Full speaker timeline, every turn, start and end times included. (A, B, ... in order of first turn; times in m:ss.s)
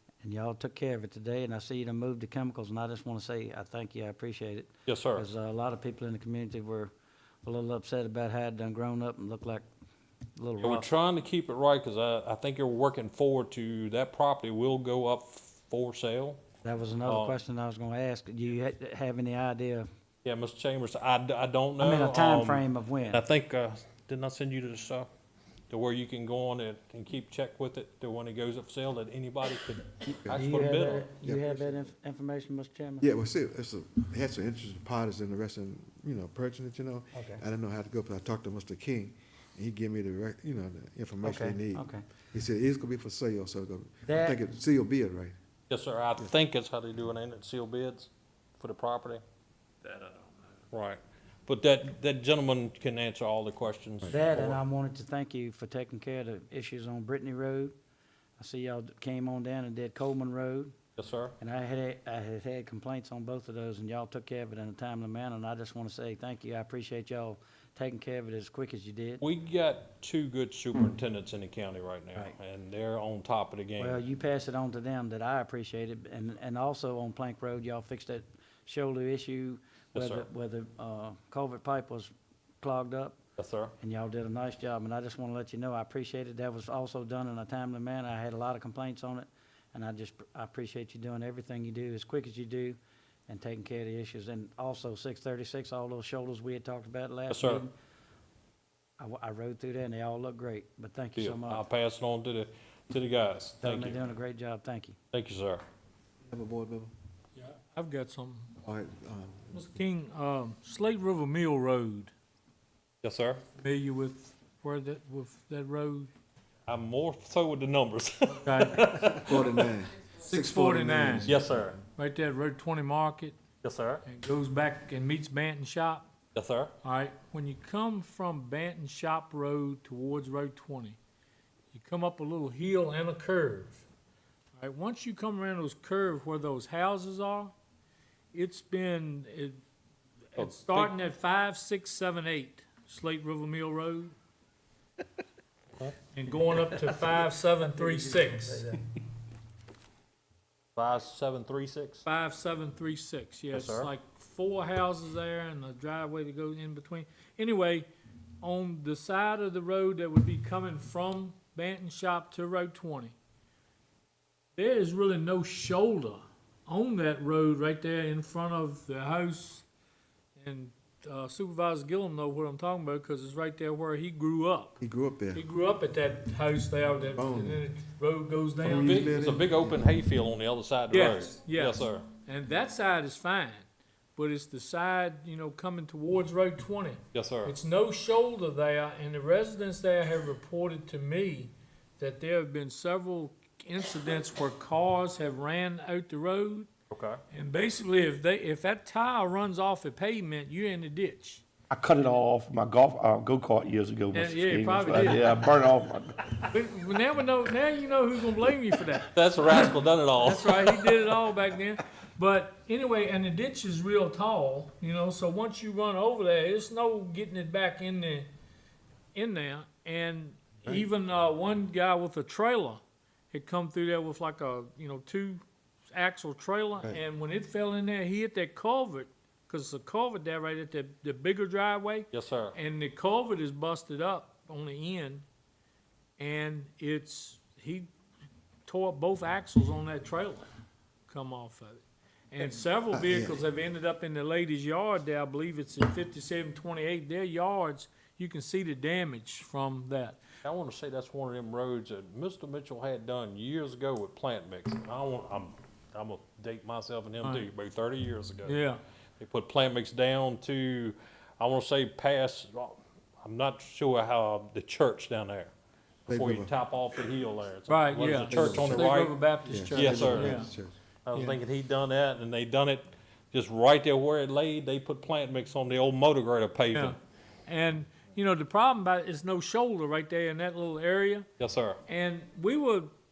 0:00.2-0:06.9 A
0:04.9-0:05.3 B
0:07.4-0:09.6 A
0:10.4-0:10.9 A
0:10.6-0:16.4 B
0:16.6-0:19.9 A
0:17.0-0:17.4 B
0:20.2-0:25.1 B
0:21.8-0:23.2 A
0:25.7-0:31.1 B
0:30.2-0:30.5 C
0:30.3-0:33.1 A
0:31.1-0:31.8 C
0:33.0-0:45.4 C
0:37.2-0:37.4 A
0:41.2-0:42.0 A
0:44.0-0:44.4 A
0:45.7-0:49.2 B
0:49.9-0:54.6 B
0:54.1-0:57.8 A
0:58.4-1:00.7 A
1:01.0-1:01.4 B
1:01.4-1:09.2 A
1:09.2-1:14.0 B
1:13.8-1:23.2 A
1:19.9-1:20.3 B
1:23.4-1:23.8 B
1:23.8-1:37.7 A
1:37.3-1:37.6 B
1:39.0-1:41.7 A
1:41.2-1:44.0 B
1:43.6-1:45.0 A
1:45.1-1:45.6 B
1:46.2-1:46.9 C
1:47.4-1:48.6 D
1:48.6-1:49.7 C
1:49.5-1:52.1 D
1:53.0-1:53.4 B
1:53.6-1:56.1 D
1:56.7-1:59.6 B
1:58.4-1:58.9 D
1:59.1-2:01.6 C
2:00.2-2:03.4 D
2:01.3-2:01.8 B
2:03.6-2:04.0 B
2:04.0-2:06.1 D
2:06.4-2:06.7 B
2:06.8-2:11.0 D
2:11.7-2:13.8 D
2:14.6-2:17.6 D
2:18.3-2:19.6 D
2:20.4-2:24.2 D
2:20.4-2:20.9 B
2:26.1-2:28.8 D
2:30.8-2:32.0 B
2:32.0-2:37.9 D
2:33.5-2:33.9 B
2:38.4-2:43.2 D
2:44.6-2:49.6 D
2:50.4-2:54.8 D
2:54.8-2:55.4 C
2:55.3-2:59.2 D
2:57.1-2:57.6 C
2:58.6-2:59.9 C
2:58.6-3:02.1 B
3:00.9-3:03.6 D
3:04.2-3:16.7 D
3:07.1-3:07.5 B
3:16.9-3:17.2 B
3:17.3-3:21.4 D
3:21.7-3:26.5 E
3:24.1-3:25.4 D
3:26.5-3:29.7 D
3:29.1-3:30.6 B
3:30.2-3:38.3 D
3:39.2-3:55.2 D
3:52.1-3:52.6 B
3:56.2-3:57.9 D
3:58.7-4:00.5 D
4:01.1-4:10.2 D
4:02.9-4:03.4 C
4:10.4-4:18.6 B
4:17.2-4:17.5 D
4:18.4-4:18.8 D
4:19.2-4:25.5 B
4:26.1-4:26.5 C
4:26.1-4:29.2 B
4:27.7-4:30.5 D
4:28.2-4:28.9 C
4:29.5-4:30.8 C
4:29.7-4:30.4 B
4:31.0-4:37.0 B
4:31.1-4:31.4 D
4:36.7-4:41.3 D
4:41.4-4:41.8 B
4:41.9-4:42.9 D